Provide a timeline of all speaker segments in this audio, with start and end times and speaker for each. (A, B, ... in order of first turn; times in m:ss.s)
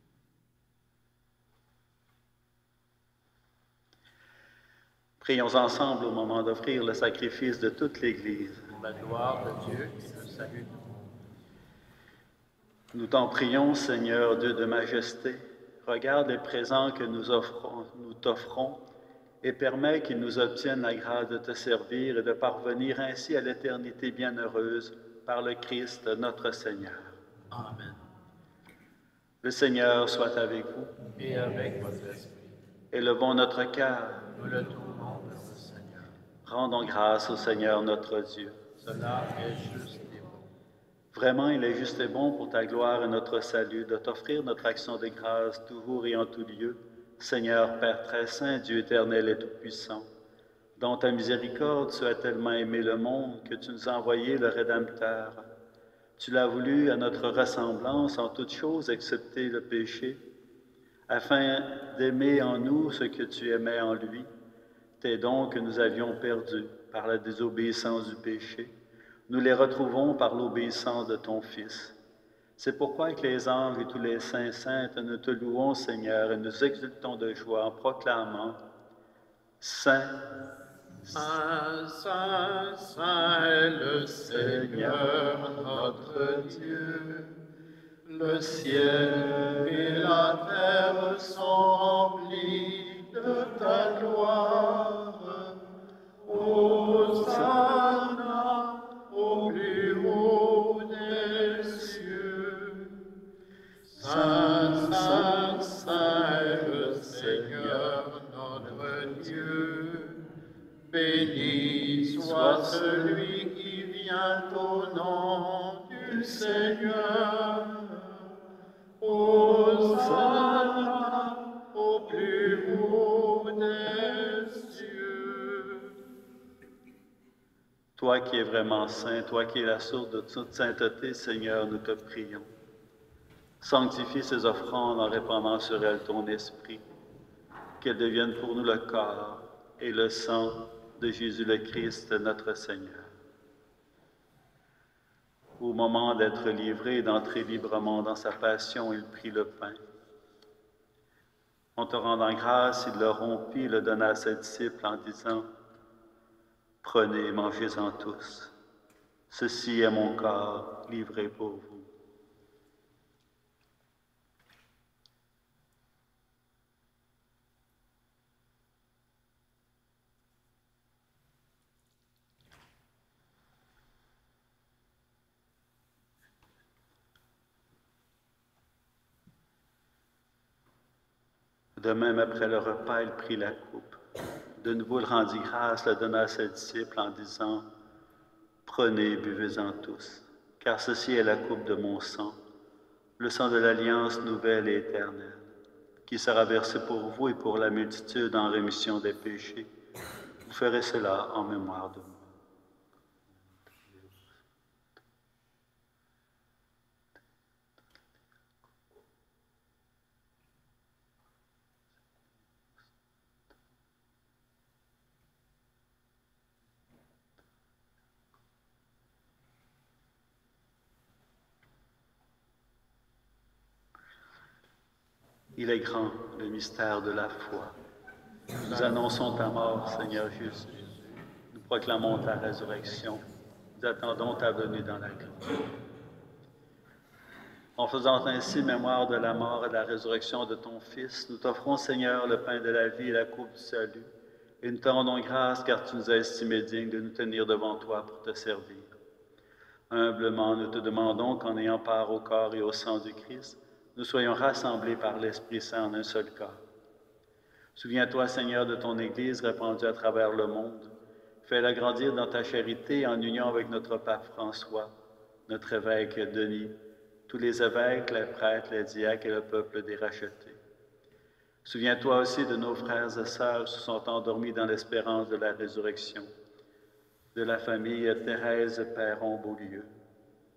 0:05.2-0:08.7 A
0:08.8-0:10.8 B
0:09.0-0:10.7 C
0:12.9-0:18.8 A
0:19.4-0:27.2 A
0:27.5-0:27.9 C
0:29.4-0:30.9 A
0:31.2-0:32.5 C
0:31.2-0:32.2 B
0:32.9-0:34.3 A
0:34.4-0:36.1 C
0:34.4-0:35.8 B
0:36.4-0:38.6 A
0:38.8-0:40.4 C
0:39.3-0:39.7 B
0:41.1-0:50.1 A
0:50.8-0:55.4 A
0:56.2-1:00.2 A
1:01.1-1:04.3 A
1:05.0-1:08.7 A
1:09.3-1:12.0 A
1:12.6-1:18.6 A
1:19.6-1:20.3 A
1:21.1-1:27.3 C
1:24.3-1:26.9 A
1:28.0-1:35.5 C
1:28.4-1:30.2 A
1:35.2-1:35.5 A
1:36.3-1:43.1 C
1:37.1-1:37.8 A
1:43.9-1:50.3 C
1:44.0-1:48.0 A
1:50.9-1:58.3 C
1:52.2-1:53.2 A
1:56.4-1:56.7 A
1:59.0-2:05.9 C
2:00.0-2:01.0 A
2:08.0-2:12.5 A
2:13.6-2:16.8 A
2:17.8-2:23.1 A
2:25.6-2:29.8 A
2:31.8-2:35.5 A
2:36.8-2:38.5 A
2:39.3-2:41.9 A
3:01.8-3:04.0 A
3:04.6-3:07.7 A
3:08.6-3:12.4 A
3:13.2-3:15.5 A
3:16.1-3:19.7 A
3:20.4-3:22.3 A
3:23.6-3:24.3 A
3:45.6-3:47.7 A
3:48.5-3:50.8 A
3:48.6-3:49.0 C
3:51.5-3:53.2 A
3:53.8-3:55.6 A
3:57.8-4:04.1 A
4:04.6-4:09.0 A
4:09.9-4:16.6 A
4:17.8-4:20.9 A
4:21.4-4:24.9 A
4:25.5-4:26.7 A
4:27.3-4:30.6 A
4:31.6-4:36.3 A
4:37.3-4:39.9 A